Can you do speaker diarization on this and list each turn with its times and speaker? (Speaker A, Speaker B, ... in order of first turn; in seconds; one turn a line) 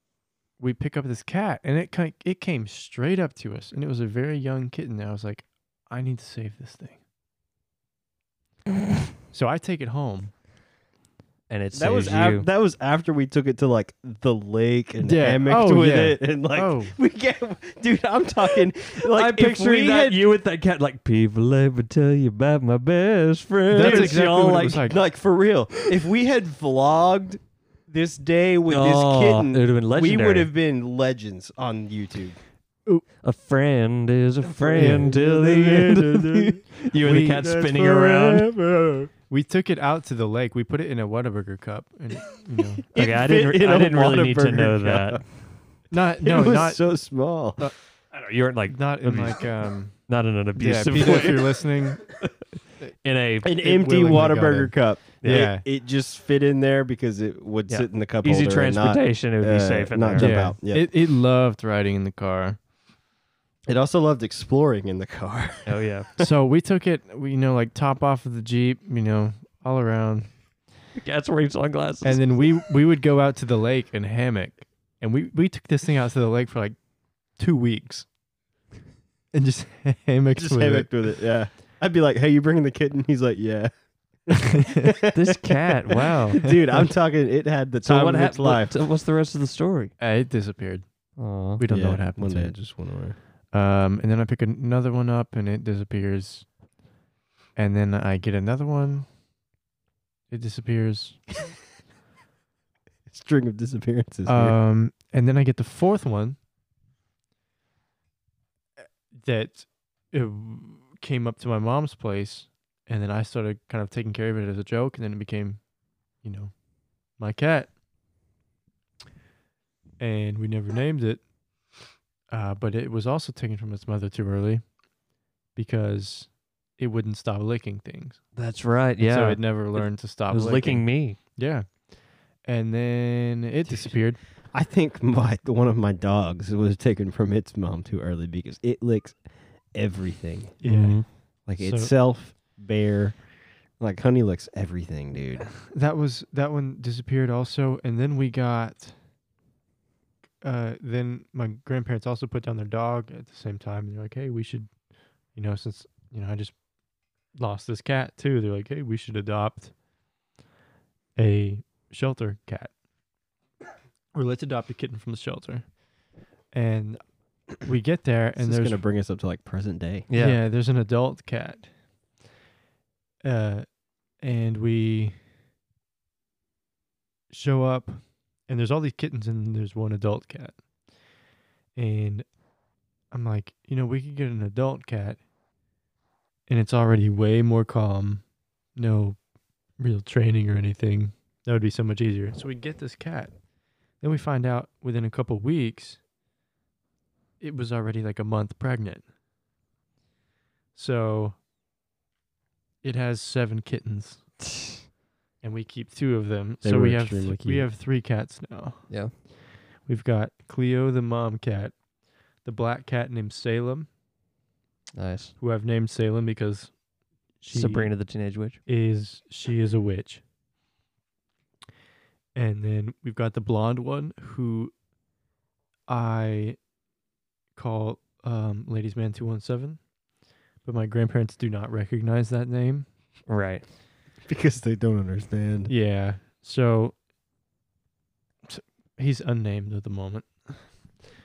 Speaker A: 0.6-7.0
Speaker A: 9.3-10.3
Speaker B: 11.5-12.5
Speaker C: 11.7-20.2
Speaker A: 15.0-16.9
Speaker B: 19.1-24.8
Speaker C: 23.7-32.4
Speaker A: 23.7-25.0
Speaker B: 28.7-30.5
Speaker B: 33.2-38.5
Speaker C: 34.4-39.1
Speaker A: 34.8-35.1
Speaker A: 39.3-42.8
Speaker C: 42.9-45.5
Speaker B: 43.0-45.3
Speaker A: 45.9-47.8
Speaker C: 46.2-47.6
Speaker B: 48.1-52.3
Speaker A: 48.7-52.1
Speaker B: 53.0-53.5
Speaker C: 53.4-60.9
Speaker A: 53.5-55.6
Speaker B: 55.2-55.5
Speaker B: 57.7-60.5
Speaker A: 60.2-62.6
Speaker C: 63.7-66.3
Speaker B: 65.7-66.1
Speaker A: 66.2-70.3
Speaker B: 71.0-72.2
Speaker A: 72.0-78.1
Speaker A: 79.3-80.9
Speaker C: 80.4-88.8
Speaker A: 84.3-84.8
Speaker B: 85.1-86.5
Speaker B: 87.8-89.9
Speaker A: 90.0-92.7
Speaker B: 91.2-91.6
Speaker C: 91.7-93.2
Speaker A: 93.5-96.5
Speaker A: 97.6-99.1
Speaker A: 100.3-101.2
Speaker C: 103.1-104.6
Speaker A: 104.3-106.4
Speaker A: 109.1-117.7
Speaker A: 120.0-121.3
Speaker A: 122.3-124.8
Speaker A: 125.5-128.3
Speaker B: 128.4-131.2
Speaker A: 129.0-134.2
Speaker C: 133.7-140.6
Speaker A: 140.6-141.9
Speaker B: 140.6-141.1
Speaker C: 141.4-145.5
Speaker A: 145.7-148.9
Speaker A: 150.4-154.7
Speaker A: 155.3-156.6
Speaker A: 157.3-159.7
Speaker A: 161.2-162.8
Speaker A: 164.1-165.8
Speaker A: 166.5-168.8
Speaker C: 168.4-170.1
Speaker B: 170.1-170.4
Speaker A: 170.2-171.7
Speaker A: 173.2-175.2
Speaker A: 177.3-180.6
Speaker A: 181.8-182.3
Speaker A: 183.1-185.2
Speaker A: 186.5-189.2
Speaker A: 189.8-193.3
Speaker A: 194.0-196.0
Speaker A: 197.4-199.1
Speaker A: 200.8-201.4
Speaker A: 202.8-204.3
Speaker A: 205.4-209.3
Speaker C: 206.6-207.7
Speaker A: 209.8-211.8
Speaker A: 212.4-213.9
Speaker B: 214.9-215.3
Speaker A: 215.4-216.8
Speaker A: 217.4-217.9
Speaker B: 217.5-218.6
Speaker A: 218.7-220.2
Speaker A: 222.3-224.7
Speaker A: 225.9-226.6
Speaker A: 227.6-229.9
Speaker A: 230.6-232.9
Speaker B: 233.3-233.6
Speaker C: 234.3-235.7
Speaker A: 235.7-237.0
Speaker A: 238.5-240.8